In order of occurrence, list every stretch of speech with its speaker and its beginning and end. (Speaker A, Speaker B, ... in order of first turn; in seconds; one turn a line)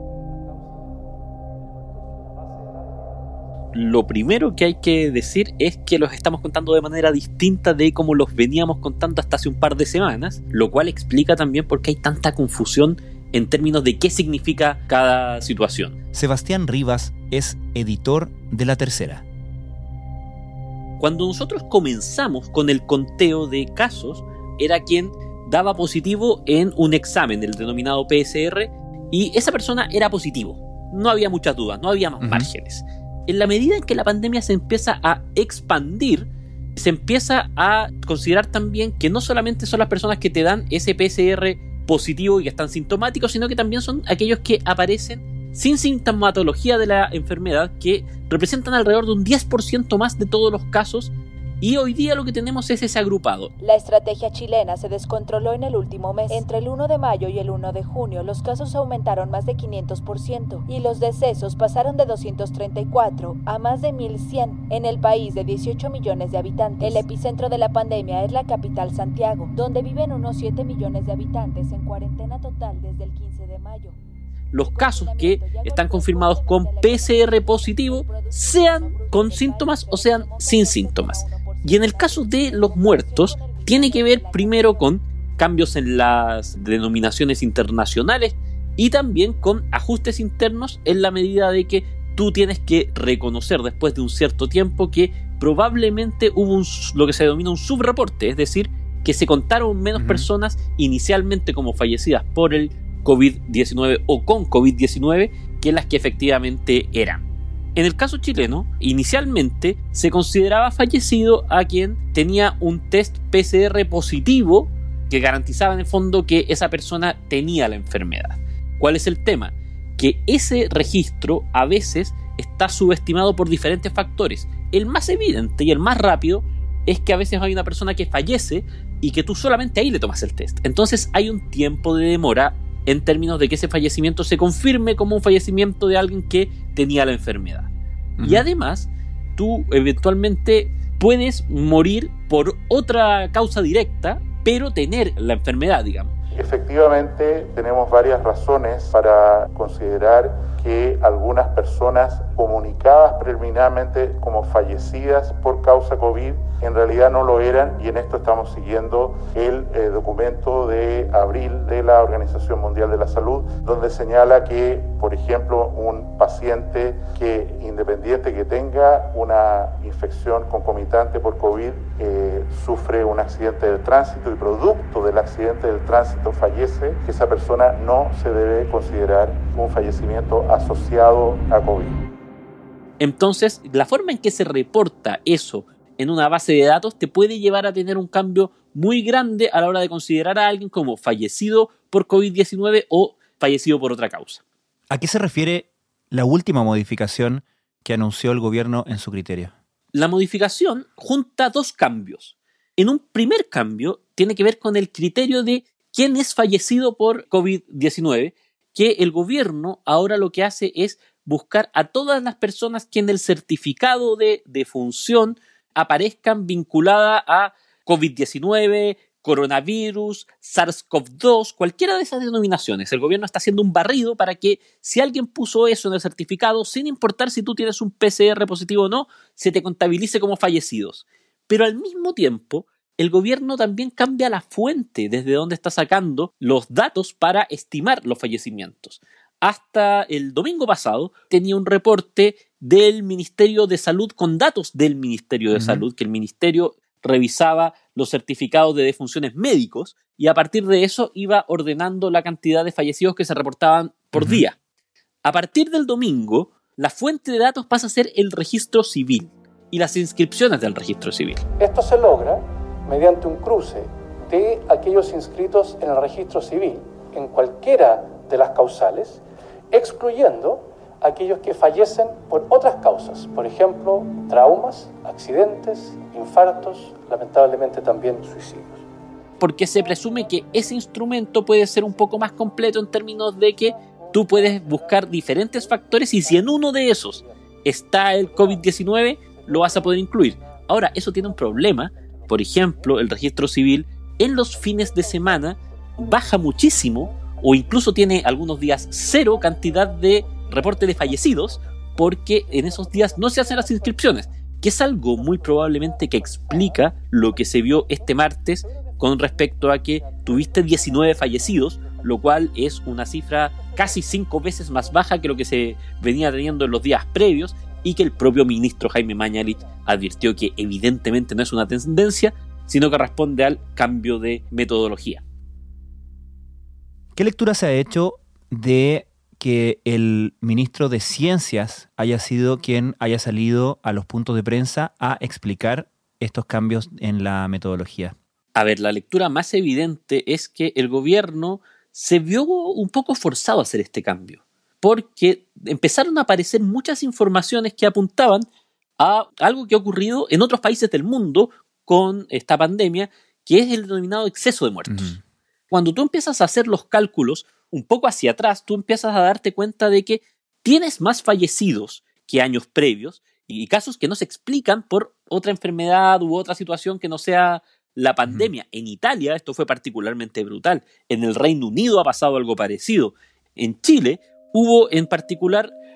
Speaker A: 0.2-1.1
Speaker A: 1.6-3.1
Speaker B: 3.7-15.9
Speaker C: 16.1-19.2
Speaker B: 21.0-53.5
Speaker C: 32.2-32.5
Speaker D: 53.6-74.0
Speaker B: 74.5-107.2
Speaker D: 74.6-84.9
Speaker C: 100.0-100.3
Speaker B: 107.8-146.1
Speaker C: 138.2-138.4
Speaker E: 146.3-182.0
Speaker B: 183.0-194.4
Speaker C: 194.9-199.5
Speaker B: 199.9-254.6
Speaker C: 245.5-245.8
Speaker C: 254.2-254.4
Speaker B: 255.2-261.4
Speaker A: 261.6-278.8
Speaker B: 279.4-325.2
Speaker A: 279.7-280.8
Speaker A: 281.7-282.9
Speaker A: 283.6-293.2
Speaker A: 294.5-315.5
Speaker A: 317.5-318.6
Speaker A: 319.1-320.6
Speaker C: 327.1-338.1
Speaker B: 338.6-348.5
Speaker B: 349.0-355.1
Speaker C: 354.9-355.2
Speaker B: 355.7-375.7
Speaker C: 368.2-368.5